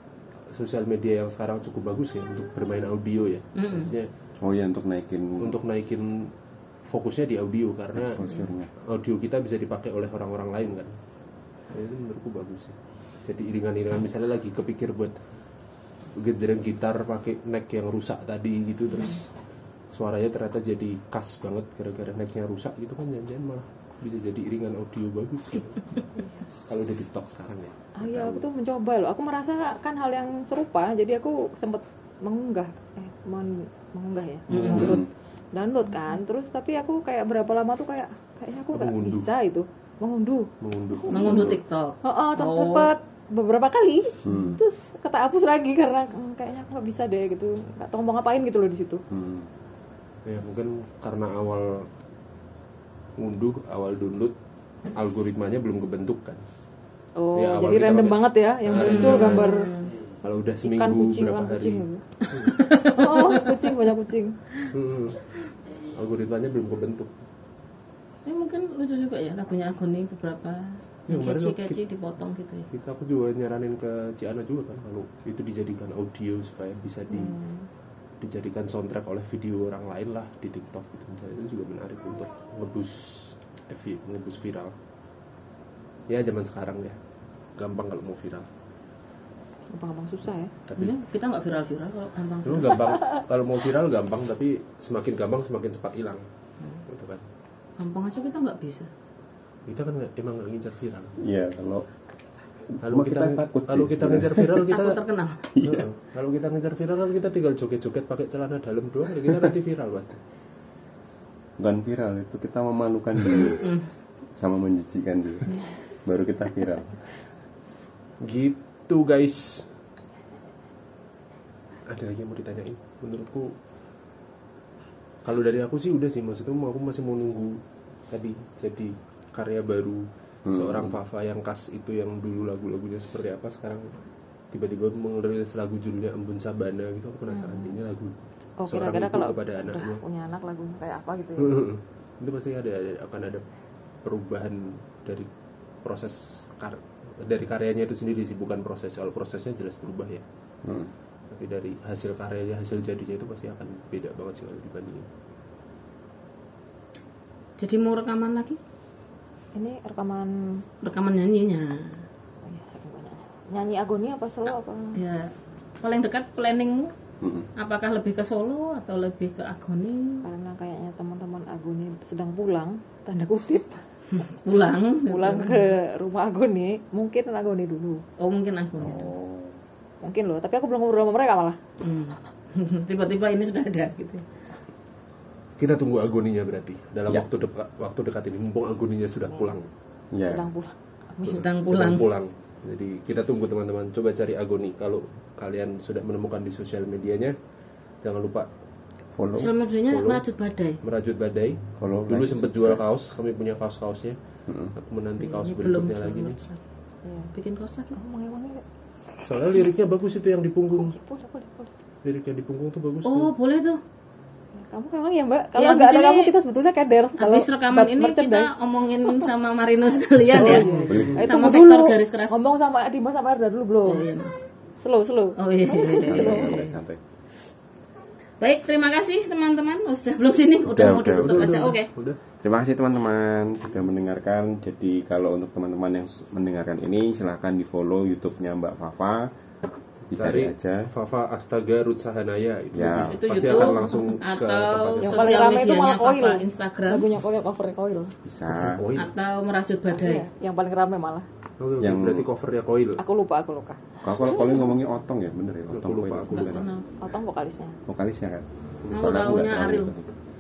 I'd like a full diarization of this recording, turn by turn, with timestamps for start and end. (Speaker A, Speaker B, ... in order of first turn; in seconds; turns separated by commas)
Speaker A: 0.5-4.1, Speaker B: 3.5-3.9, Speaker C: 4.4-5.6, Speaker A: 5.4-6.3, Speaker A: 6.8-8.2, Speaker C: 7.9-8.7, Speaker A: 8.8-10.9, Speaker A: 11.7-15.1, Speaker A: 16.2-19.2, Speaker A: 19.9-25.9, Speaker A: 26.6-28.4, Speaker D: 28.0-40.5, Speaker B: 34.5-35.0, Speaker A: 34.5-35.0, Speaker C: 34.7-35.1, Speaker A: 38.7-39.3, Speaker A: 40.6-41.6, Speaker D: 41.1-41.4, Speaker B: 41.1-42.9, Speaker D: 42.0-49.0, Speaker C: 44.2-44.6, Speaker C: 49.1-49.5, Speaker A: 50.2-51.9, Speaker A: 53.2-54.3, Speaker A: 54.9-56.4, Speaker D: 57.2-59.7, Speaker A: 57.4-59.6, Speaker B: 58.8-59.9, Speaker A: 60.2-62.6, Speaker D: 60.6-62.0, Speaker B: 62.3-63.7, Speaker D: 62.7-64.3, Speaker A: 64.7-65.4, Speaker A: 65.9-67.1, Speaker B: 68.2-72.7, Speaker A: 71.1-71.8, Speaker A: 72.7-77.4, Speaker D: 77.1-77.7, Speaker A: 78.2-84.7, Speaker A: 86.1-87.0, Speaker A: 87.6-88.5, Speaker D: 89.7-90.5, Speaker A: 90.7-90.9, Speaker B: 90.7-93.0, Speaker A: 92.4-96.2, Speaker A: 96.9-97.2, Speaker B: 97.8-98.9, Speaker A: 99.7-101.1, Speaker C: 101.2-101.8, Speaker C: 102.7-104.7, Speaker A: 102.8-105.0, Speaker B: 104.7-105.5, Speaker C: 105.5-105.8, Speaker A: 105.6-110.2, Speaker C: 111.6-113.8, Speaker C: 114.4-117.0, Speaker A: 118.2-119.7, Speaker A: 121.9-123.5, Speaker A: 125.2-133.9, Speaker C: 130.4-131.0, Speaker A: 134.5-138.1, Speaker D: 137.3-137.8, Speaker D: 138.6-141.6, Speaker A: 138.7-140.0, Speaker A: 141.4-143.4, Speaker A: 144.0-145.3, Speaker A: 145.8-150.2, Speaker C: 150.6-150.9, Speaker A: 151.3-155.1, Speaker B: 157.6-158.6, Speaker D: 159.5-160.6, Speaker B: 160.8-162.0, Speaker D: 162.4-165.0, Speaker B: 164.9-166.9, Speaker C: 167.2-167.5, Speaker B: 167.6-170.2, Speaker D: 170.2-173.8, Speaker B: 174.1-175.7, Speaker D: 175.1-178.0, Speaker B: 178.2-179.1, Speaker C: 178.8-179.6, Speaker D: 180.0-181.6, Speaker B: 181.8-184.2, Speaker A: 185.6-189.7, Speaker C: 190.1-190.5, Speaker D: 190.2-191.4, Speaker B: 191.2-192.1, Speaker A: 191.2-197.3, Speaker A: 198.0-198.5, Speaker C: 199.1-199.5, Speaker B: 199.4-200.8, Speaker A: 199.9-200.2, Speaker A: 200.8-204.2, Speaker C: 201.8-202.8, Speaker C: 204.5-204.7, Speaker A: 204.7-206.4, Speaker B: 205.2-206.6, Speaker D: 207.0-207.3, Speaker B: 207.3-207.9, Speaker D: 207.9-208.6, Speaker D: 209.2-209.5, Speaker A: 209.2-210.9, Speaker D: 210.8-211.7, Speaker A: 212.0-213.3, Speaker B: 213.0-213.8, Speaker D: 214.6-218.5, Speaker B: 215.6-216.3, Speaker B: 217.2-222.4, Speaker D: 220.3-224.1, Speaker A: 220.4-221.2, Speaker B: 223.8-224.3, Speaker D: 224.8-226.6, Speaker B: 225.4-226.7, Speaker C: 225.9-227.0, Speaker B: 228.4-231.9, Speaker C: 230.7-231.6, Speaker A: 231.2-232.2, Speaker C: 232.4-239.3, Speaker C: 240.1-240.9, Speaker A: 240.1-245.5, Speaker C: 242.7-243.7, Speaker B: 243.0-247.1, Speaker D: 245.0-248.1, Speaker C: 248.2-248.8, Speaker A: 248.5-249.1, Speaker B: 248.9-250.2, Speaker D: 249.9-251.3, Speaker A: 251.6-253.0, Speaker C: 251.8-252.3, Speaker D: 253.0-254.6, Speaker C: 254.0-256.7, Speaker A: 255.7-256.7, Speaker D: 256.4-257.8, Speaker C: 257.9-260.1, Speaker B: 258.9-259.9